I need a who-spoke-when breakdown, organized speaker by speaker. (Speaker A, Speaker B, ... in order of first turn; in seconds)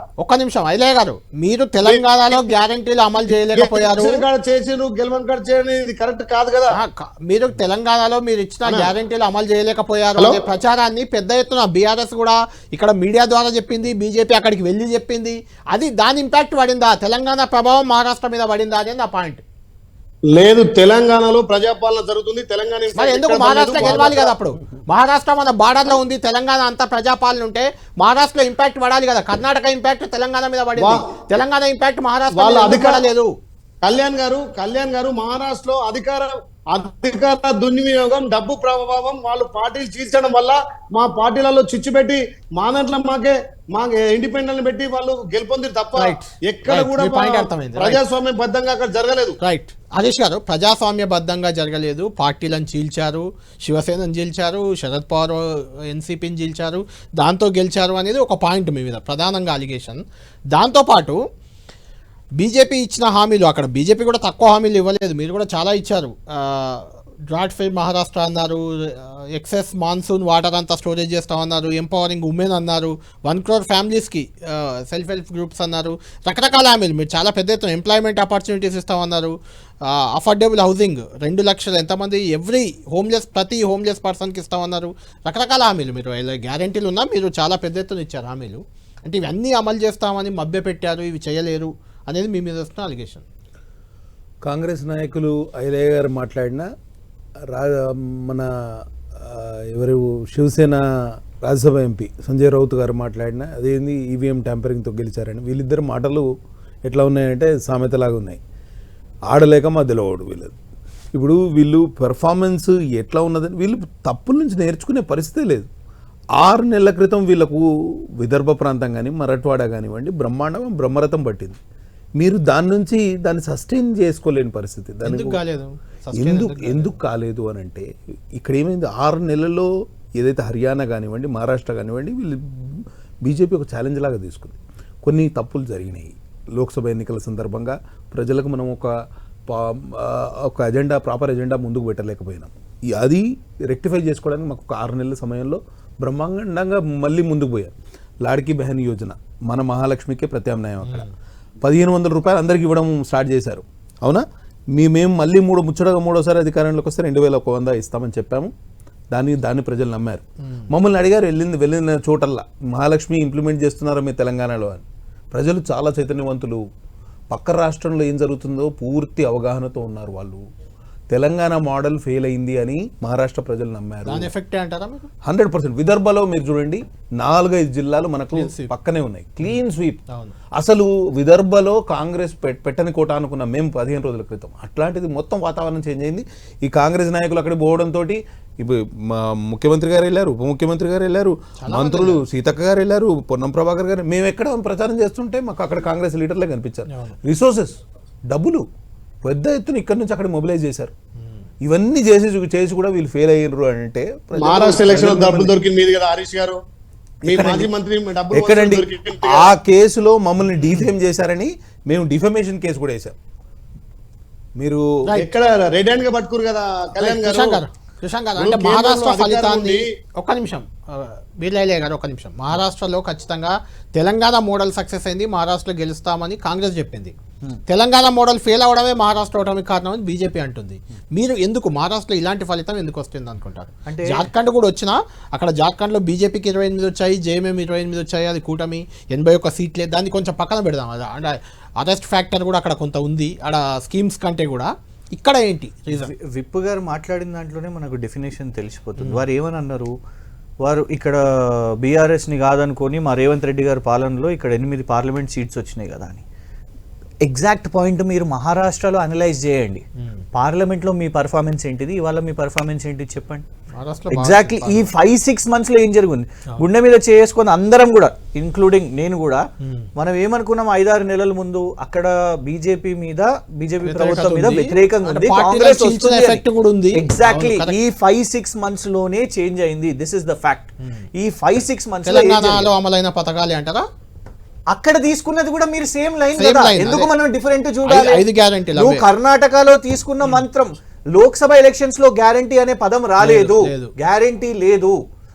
Speaker A: 0.2-4.2, 6.7-19.4, 22.9-33.3, 46.0-48.0, 49.4-60.0, 60.5-61.2, 62.4-93.2, 125.0-127.0, 150.8-151.1, 174.1-175.1, 178.3-178.7, 180.1-180.3, 191.6-192.2, 196.9-197.2, 217.0-227.1, 227.7-246.1, 249.0-249.2, 263.8-264.9, 269.6-269.9, 273.9-277.7, 282.1-283.9, 286.4-287.1, 287.9-289.0, 293.2-293.9
Speaker B: 1.8-2.4, 3.5-6.7, 10.2-10.4, 20.3-24.3, 32.4-33.0, 33.8-49.4, 204.4-206.6, 207.2-209.5, 215.1-217.6, 218.4-219.9
Speaker C: 94.4-96.7, 97.5-106.3, 106.8-108.4, 109.3-110.5, 111.1-115.7, 116.4-117.7, 118.2-121.6, 122.2-125.4, 126.1-138.9, 139.5-147.7, 148.2-151.1, 151.6-158.5, 159.1-166.6, 167.3-170.4, 171.1-174.3, 175.2-180.0, 180.5-198.7, 199.2-200.9, 201.6-205.5, 207.2-207.7, 208.3-213.2, 214.6-214.9
Speaker D: 233.9-234.3, 245.9-249.9, 250.6-256.2, 257.2-263.4, 264.1-269.4, 269.9-276.4, 276.9-282.7, 284.7-295.0